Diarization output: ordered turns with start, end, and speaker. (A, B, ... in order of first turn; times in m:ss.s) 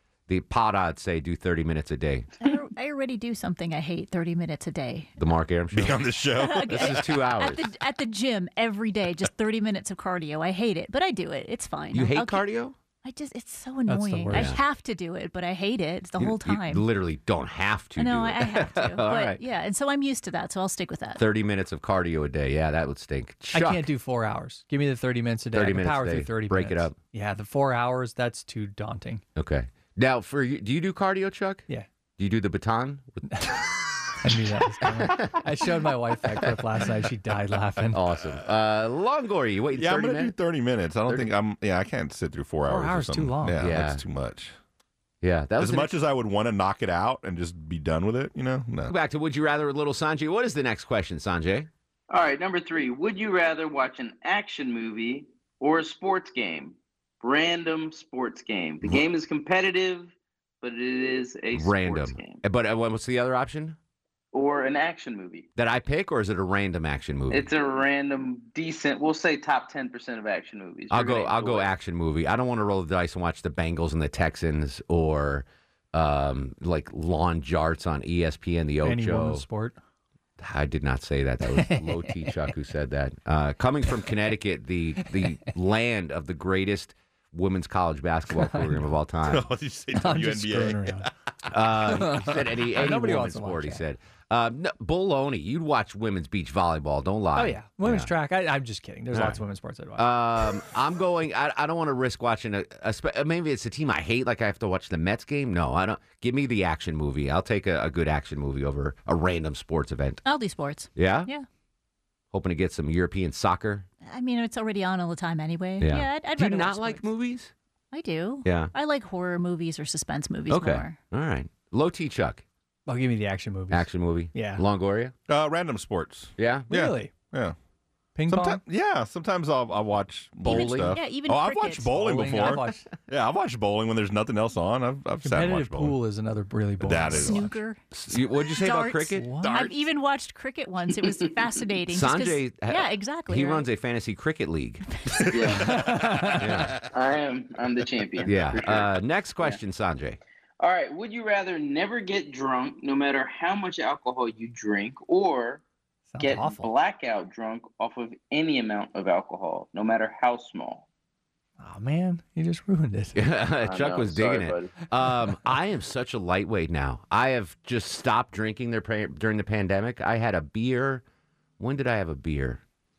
0:00.3-0:02.3 A
0:02.4-0:05.1 B
0:05.2-0:06.0 A
0:05.7-0:07.0 C
0:06.3-0:12.4 B
0:06.7-0:07.7 A
0:11.9-0:12.8 A
0:13.0-0:16.9 B
0:13.9-0:14.6 D
0:14.3-0:14.6 A
0:16.2-0:19.4 A
0:18.0-0:21.2 B
0:21.2-0:23.9 A
0:23.5-0:29.2 D
0:25.5-0:27.0 A
0:29.4-0:31.6 A
0:32.2-0:33.6 A
0:33.3-0:33.6 D
0:34.2-0:38.0 D
0:34.8-0:35.5 A
0:37.9-0:40.3 A
0:39.7-0:44.5 C
0:42.7-0:43.6 D
0:43.6-0:44.0 A
0:45.2-0:46.0 A
0:45.6-0:48.9 C
0:48.9-0:51.7 A
0:52.1-1:02.4 E
1:01.5-1:03.8 A
1:04.3-1:05.4 E
1:05.6-1:07.5 A
1:07.3-1:11.7 E
1:10.9-1:19.4 A
1:18.8-1:19.8 D
1:20.4-1:29.5 A
1:21.5-1:22.4 D
1:28.3-1:28.8 D
1:29.3-1:31.1 C
1:29.9-1:31.1 D
1:31.5-1:38.1 A
1:31.9-1:33.8 D
1:37.3-1:40.1 D
1:39.1-1:39.4 A
1:40.0-1:50.2 A
1:50.2-1:51.4 B
1:51.0-1:51.3 A
1:52.3-1:53.9 A
1:54.0-1:57.1 B
1:55.8-1:57.5 A
1:57.9-2:01.0 B
1:58.4-1:58.7 A
2:00.5-2:02.4 A
2:02.9-2:04.6 D
2:03.7-2:05.1 A
2:05.3-2:07.5 C
2:06.4-2:06.7 A
2:06.7-2:07.1 D
2:08.2-2:08.6 D
2:08.3-2:16.0 C
2:10.4-2:11.0 A
2:10.4-2:12.5 B
2:11.9-2:12.9 D
2:15.2-2:17.6 D
2:16.8-2:17.5 C
2:17.1-2:23.6 B
2:17.9-2:19.7 A
2:19.1-2:19.6 D
2:21.9-2:24.8 A
2:25.3-2:25.7 E
2:25.5-2:26.6 D
2:26.2-2:26.8 C
2:26.4-2:26.8 A
2:26.8-2:28.9 E
2:28.2-2:30.2 A
2:30.6-2:35.6 E
2:36.1-2:36.7 D
2:36.2-2:40.8 E
2:41.6-2:43.2 D
2:43.1-2:51.0 A
2:43.6-2:44.7 E
2:51.6-2:52.6 A